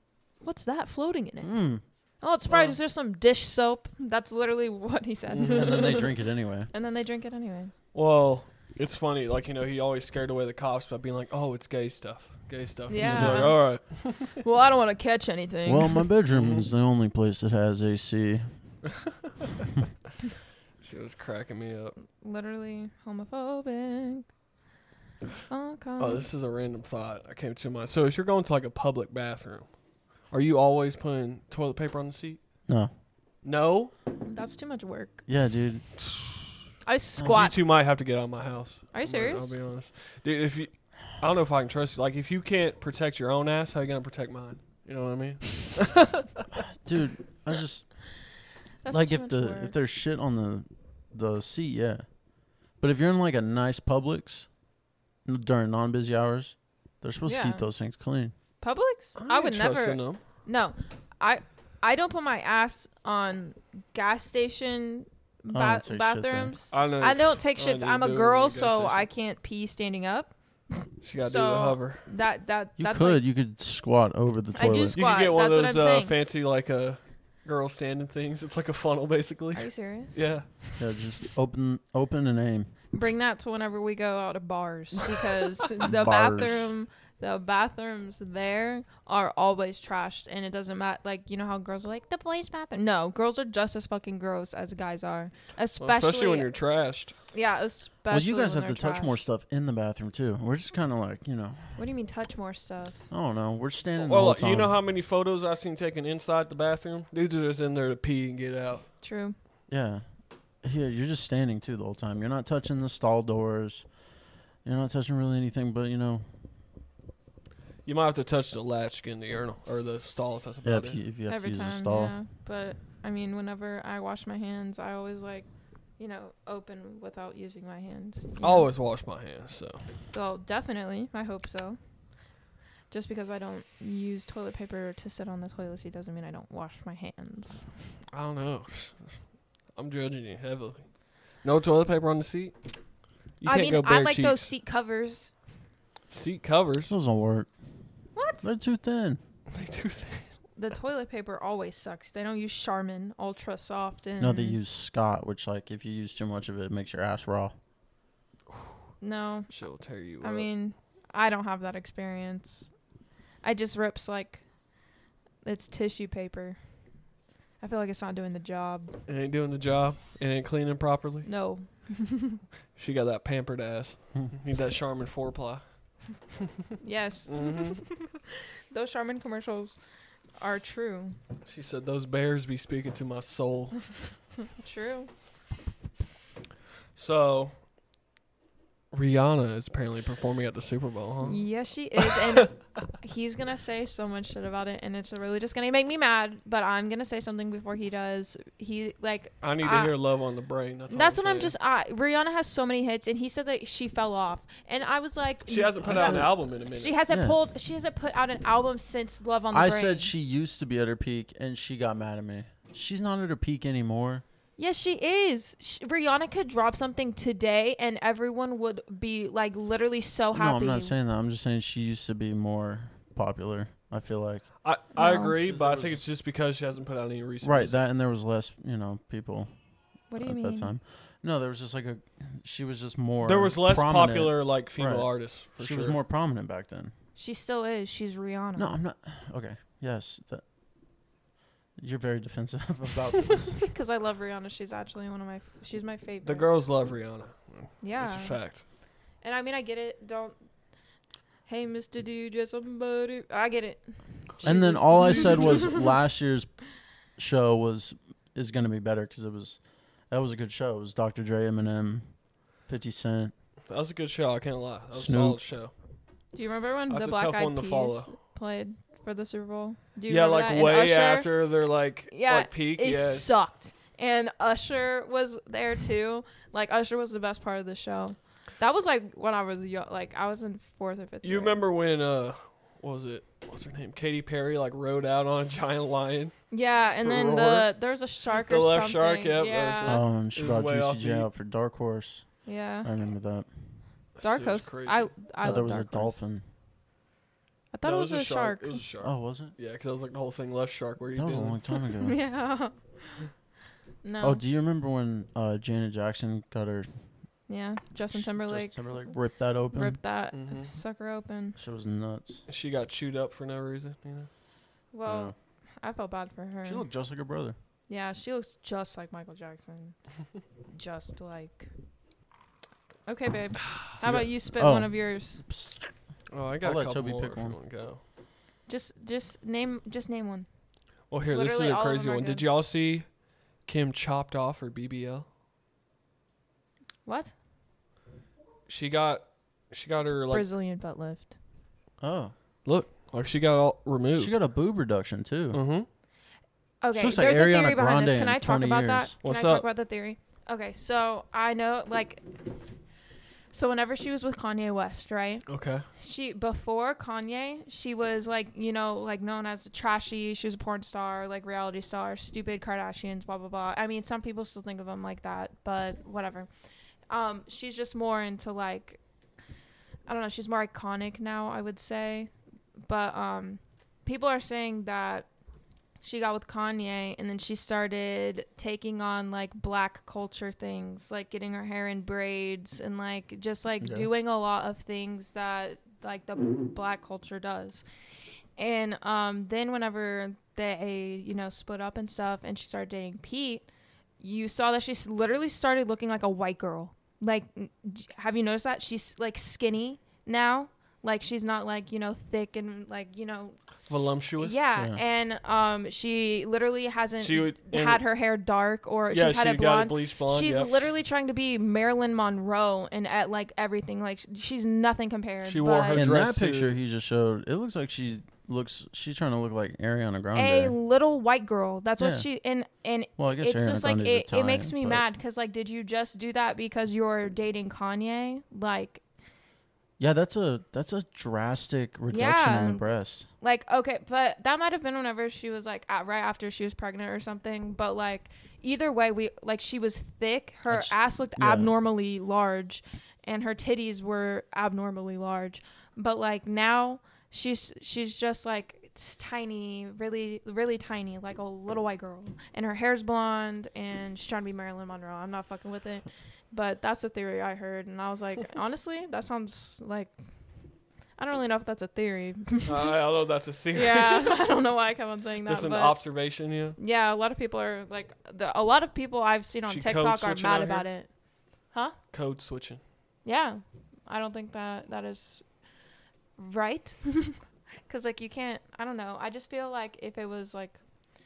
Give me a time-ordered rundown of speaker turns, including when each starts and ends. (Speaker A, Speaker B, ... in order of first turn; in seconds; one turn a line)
Speaker A: 0.4-6.2
Speaker B: 1.4-1.8
Speaker C: 2.5-2.8
Speaker C: 5.3-6.0
Speaker B: 5.5-6.7
Speaker A: 6.7-7.8
Speaker C: 7.9-14.4
Speaker A: 12.9-16.1
Speaker B: 13.0-13.6
Speaker B: 15.7-18.5
Speaker C: 16.3-16.7
Speaker C: 20.8-22.0
Speaker A: 22.1-24.3
Speaker A: 25.5-26.3
Speaker C: 26.0-32.6
Speaker B: 32.7-32.9
Speaker C: 33.4-33.9
Speaker A: 34.2-35.2
Speaker B: 35.3-35.9
Speaker C: 36.1-36.3
Speaker A: 36.8-37.6
Speaker B: 37.2-37.5
Speaker C: 37.2-46.2
Speaker A: 38.9-39.5
Speaker B: 46.7-48.3
Speaker A: 48.8-49.7
Speaker B: 48.9-54.5
Speaker B: 55.2-58.3
Speaker A: 57.3-57.6
Speaker A: 58.6-73.2
Speaker C: 59.2-60.2
Speaker B: 65.5-66.6
Speaker C: 66.7-69.0
Speaker C: 71.0-72.0
Speaker B: 72.8-75.0
Speaker A: 74.5-76.1
Speaker C: 74.9-80.7
Speaker A: 79.5-80.5
Speaker B: 80.8-82.8
Speaker A: 82.9-96.5
Speaker B: 85.9-86.7
Speaker C: 95.8-97.2
Speaker A: 97.3-99.2
Speaker B: 98.1-101.8
Speaker A: 101.8-103.0
Speaker B: 103.1-104.7
Speaker C: 104.0-108.9
Speaker A: 109.0-109.4
Speaker B: 109.7-114.0
Speaker B: 114.6-116.3
Speaker C: 117.8-121.0
Speaker B: 120.6-122.2
Speaker A: 121.3-128.7
Speaker C: 128.4-129.9
Speaker A: 130.1-131.8
Speaker A: 132.9-137.7
Speaker C: 138.1-142.6
Speaker C: 143.4-144.4
Speaker A: 143.4-145.3
Speaker C: 146.1-146.9
Speaker B: 146.9-147.5
Speaker A: 148.2-148.4
Speaker B: 148.4-149.2
Speaker C: 149.5-150.3
Speaker A: 150.6-154.6
Speaker B: 154.2-157.5
Speaker A: 159.0-162.7
Speaker C: 159.5-160.5
Speaker A: 163.4-164.5
Speaker A: 165.4-166.6
Speaker A: 167.6-169.0
Speaker C: 169.1-171.3
Speaker A: 171.2-172.4
Speaker C: 172.8-176.1
Speaker A: 176.8-179.8
Speaker C: 177.3-177.8
Speaker A: 180.4-181.2
Speaker C: 181.4-183.9
Speaker A: 184.5-185.1
Speaker C: 186.9-187.6
Speaker C: 188.9-191.4
Speaker A: 191.2-199.9
Speaker C: 199.4-201.5
Speaker A: 200.9-210.1
Speaker C: 205.5-207.0
Speaker B: 205.8-206.4
Speaker B: 207.1-207.4
Speaker B: 209.5-214.2
Speaker A: 214.6-220.9
Speaker B: 220.3-224.6
Speaker C: 224.6-227.8
Speaker A: 224.9-225.4
Speaker B: 225.3-226.0
Speaker B: 227.4-229.6
Speaker A: 230.1-230.7
Speaker B: 230.2-236.9
Speaker C: 233.2-236.0
Speaker A: 237.2-238.7
Speaker B: 238.6-240.4
Speaker B: 241.8-243.7
Speaker A: 243.6-246.5
Speaker C: 246.2-248.6
Speaker A: 247.8-250.4
Speaker A: 251.5-255.9
Speaker C: 254.4-255.4
Speaker B: 254.4-256.6
Speaker B: 257.2-263.3
Speaker C: 263.7-265.7
Speaker B: 264.9-265.4
Speaker A: 266.3-271.3
Speaker C: 266.9-268.1
Speaker C: 270.1-273.4
Speaker A: 272.1-281.6
Speaker C: 281.2-286.4
Speaker A: 286.5-290.0
Speaker B: 287.1-287.6
Speaker C: 288.5-291.3
Speaker B: 289.9-293.5
Speaker A: 292.4-292.9
Speaker C: 294.2-295.1
Speaker A: 294.2-296.2
Speaker B: 295.4-296.4
Speaker A: 297.7-298.8
Speaker C: 297.8-301.6
Speaker B: 299.0-299.6
Speaker B: 301.1-302.2
Speaker A: 302.0-303.2
Speaker A: 304.0-304.4
Speaker B: 304.2-306.9
Speaker A: 307.5-311.6
Speaker B: 308.1-310.0
Speaker C: 310.3-310.7
Speaker B: 311.6-312.4
Speaker C: 312.5-314.3
Speaker A: 314.9-316.8
Speaker B: 315.1-315.4
Speaker B: 316.6-317.6
Speaker A: 317.9-320.0
Speaker A: 320.7-321.7
Speaker A: 323.1-325.4
Speaker B: 324.1-325.9
Speaker C: 326.3-328.0
Speaker B: 326.6-327.6
Speaker A: 328.7-330.5
Speaker C: 331.1-335.3
Speaker A: 331.3-332.5
Speaker A: 337.1-337.3
Speaker C: 338.7-340.5
Speaker A: 340.3-341.4
Speaker B: 342.0-342.3
Speaker C: 342.6-344.4
Speaker B: 344.2-345.6
Speaker C: 345.5-345.9
Speaker A: 346.8-352.2
Speaker B: 346.9-349.1
Speaker C: 349.2-349.6
Speaker A: 353.5-366.5
Speaker C: 355.5-355.8
Speaker A: 367.1-369.0
Speaker A: 370.1-372.3
Speaker A: 372.8-375.3
Speaker A: 376.0-387.8
Speaker B: 383.8-384.1
Speaker A: 388.6-393.7
Speaker A: 394.2-403.6
Speaker C: 403.9-404.6
Speaker A: 404.4-416.1
Speaker B: 404.8-405.0
Speaker C: 407.2-408.0
Speaker C: 409.1-410.7
Speaker C: 415.4-416.8
Speaker B: 415.9-420.8
Speaker A: 420.4-429.0
Speaker B: 422.0-422.3
Speaker B: 423.2-425.0
Speaker B: 430.0-433.3
Speaker A: 432.1-432.9
Speaker A: 433.4-460.1
Speaker B: 440.7-441.7
Speaker A: 461.2-462.8
Speaker C: 462.6-464.3
Speaker A: 463.7-466.1
Speaker C: 465.5-466.8
Speaker A: 466.8-472.0
Speaker C: 469.7-470.9
Speaker C: 472.1-472.8
Speaker A: 473.2-475.5
Speaker A: 476.4-480.8